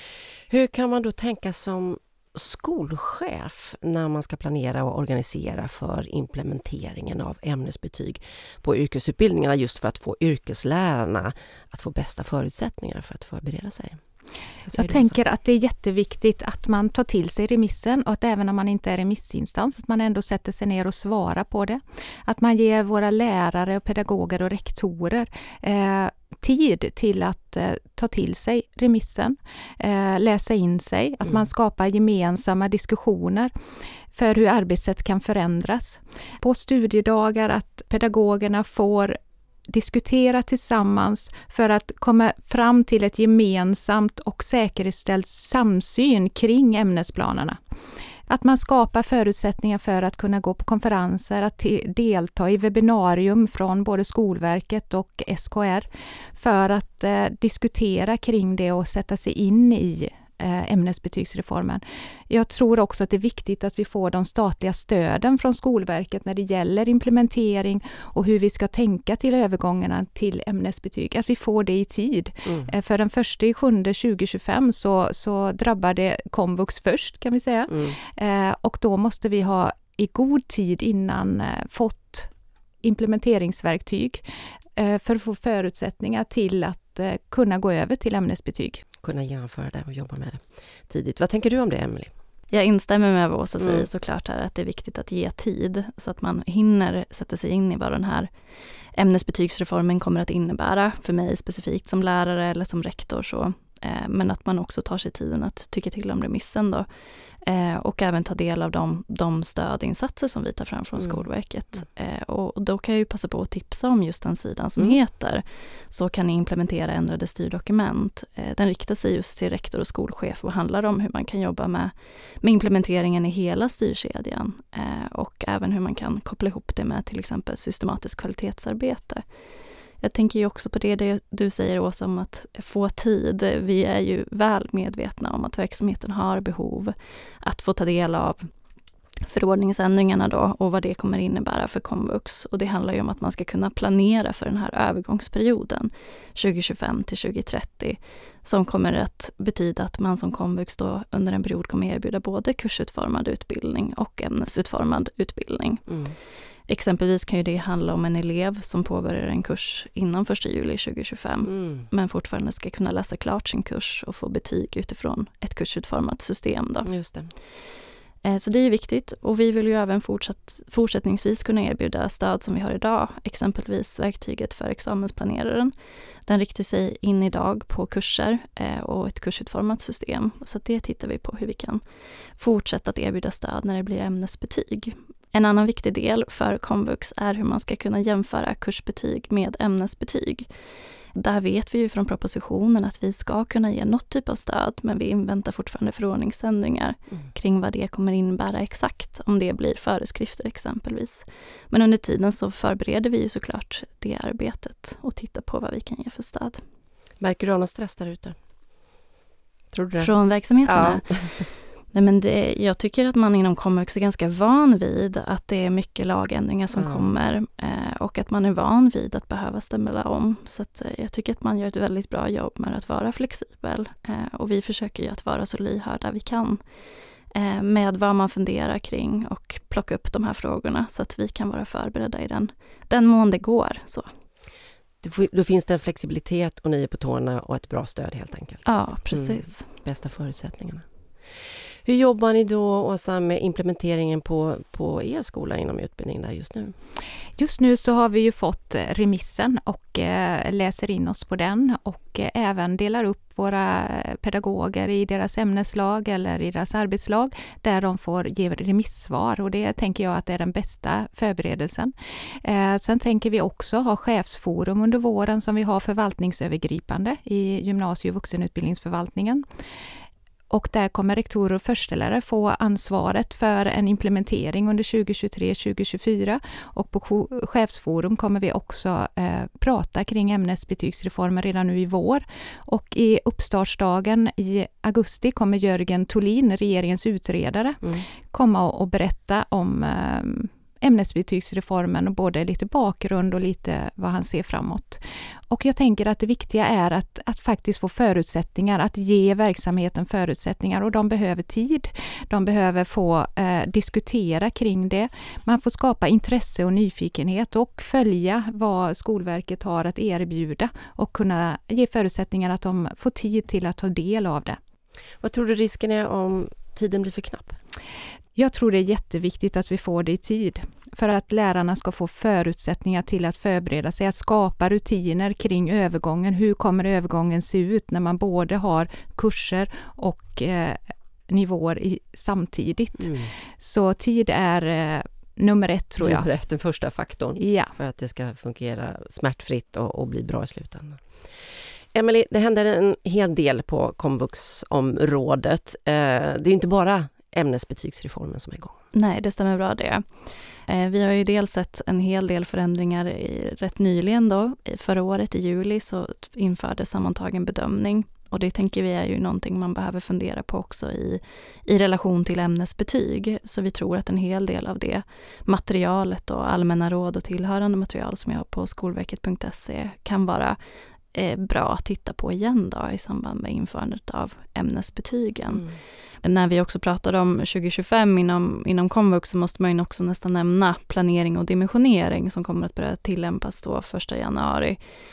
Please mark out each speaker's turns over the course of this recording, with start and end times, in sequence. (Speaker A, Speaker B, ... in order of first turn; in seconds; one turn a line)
Speaker A: 0.5-14.0
Speaker A: 14.6-15.2
Speaker B: 14.7-33.5
Speaker B: 34.1-39.2
Speaker B: 39.7-47.6
Speaker B: 48.3-82.3
Speaker A: 77.7-78.0
Speaker B: 82.8-84.2
Speaker B: 84.8-88.8
Speaker A: 89.0-92.1
Speaker C: 92.5-98.3
Speaker A: 93.6-93.8
Speaker C: 98.9-106.9
Speaker C: 107.4-129.2
Speaker A: 111.0-111.2
Speaker C: 130.0-138.4
Speaker C: 139.3-155.9
Speaker A: 155.9-156.2
Speaker C: 156.7-166.9
Speaker A: 161.4-161.8
Speaker A: 166.8-167.3
Speaker C: 168.2-175.7
Speaker C: 176.2-181.8
Speaker C: 182.4-190.5
Speaker C: 191.1-206.6
Speaker A: 207.2-208.3
Speaker A: 209.7-210.1
Speaker C: 210.0-211.0
Speaker A: 210.7-211.4
Speaker C: 211.9-226.6
Speaker A: 216.7-217.1
Speaker C: 227.3-234.1
Speaker A: 235.0-240.8
Speaker C: 238.7-239.7
Speaker A: 241.8-246.7
Speaker B: 247.4-269.4
Speaker B: 270.5-314.6
Speaker A: 315.2-317.6
Speaker B: 318.4-336.3
Speaker A: 333.0-333.3
Speaker A: 336.0-341.0
Speaker B: 337.4-337.7
Speaker A: 341.9-348.7
Speaker C: 348.9-350.0
Speaker C: 350.7-370.6
Speaker C: 371.1-375.6
Speaker A: 375.5-375.8
Speaker C: 376.2-384.8